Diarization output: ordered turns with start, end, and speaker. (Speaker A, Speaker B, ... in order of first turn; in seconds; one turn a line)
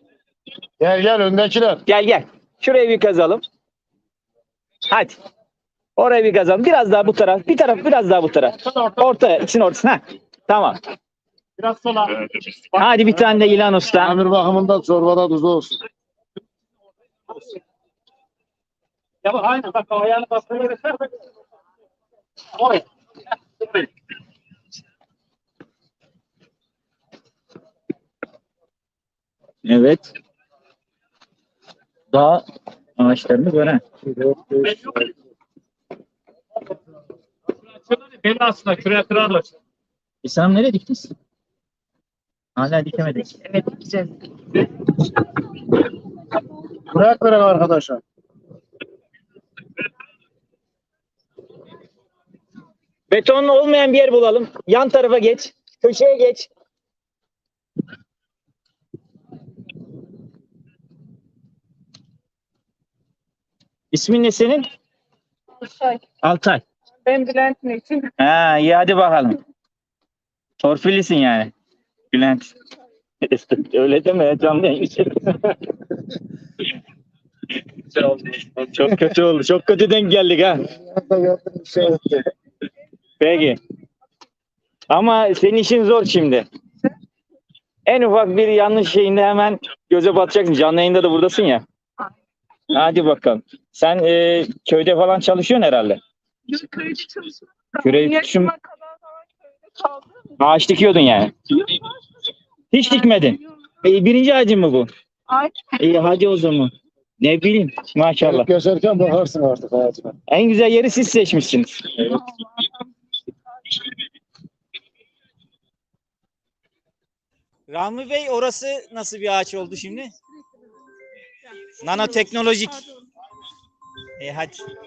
Speaker A: 0.8-1.8
Speaker B: 1.9-3.4
Speaker B: 4.9-5.2
Speaker B: 6.0-10.8
Speaker C: 8.6-9.0
Speaker C: 11.6-12.6
Speaker B: 12.7-14.2
Speaker A: 13.9-15.8
Speaker C: 19.2-21.1
Speaker C: 22.6-22.8
Speaker B: 29.6-30.1
Speaker B: 32.1-32.4
Speaker B: 33.0-33.8
Speaker A: 34.0-35.1
Speaker C: 37.8-39.5
Speaker B: 40.2-41.1
Speaker B: 42.5-43.8
Speaker D: 43.6-44.1
Speaker A: 46.9-48.0
Speaker B: 53.1-56.5
Speaker B: 63.9-64.7
Speaker D: 65.6-66.0
Speaker B: 66.2-66.6
Speaker D: 67.0-68.1
Speaker B: 68.2-69.4
Speaker B: 70.6-71.5
Speaker B: 72.1-72.5
Speaker B: 73.2-75.5
Speaker B: 77.9-80.7
Speaker A: 80.7-82.2
Speaker B: 83.2-83.6
Speaker B: 84.9-86.5
Speaker B: 87.8-91.6
Speaker B: 92.7-96.0
Speaker D: 96.5-100.3
Speaker B: 97.8-98.5
Speaker B: 100.4-101.3
Speaker D: 101.6-102.0
Speaker B: 102.7-104.9
Speaker D: 105.3-105.7
Speaker B: 105.8-108.5
Speaker A: 108.2-110.1
Speaker B: 110.3-112.2
Speaker D: 112.1-112.9
Speaker B: 117.7-120.1
Speaker B: 121.8-122.9
Speaker B: 124.2-124.7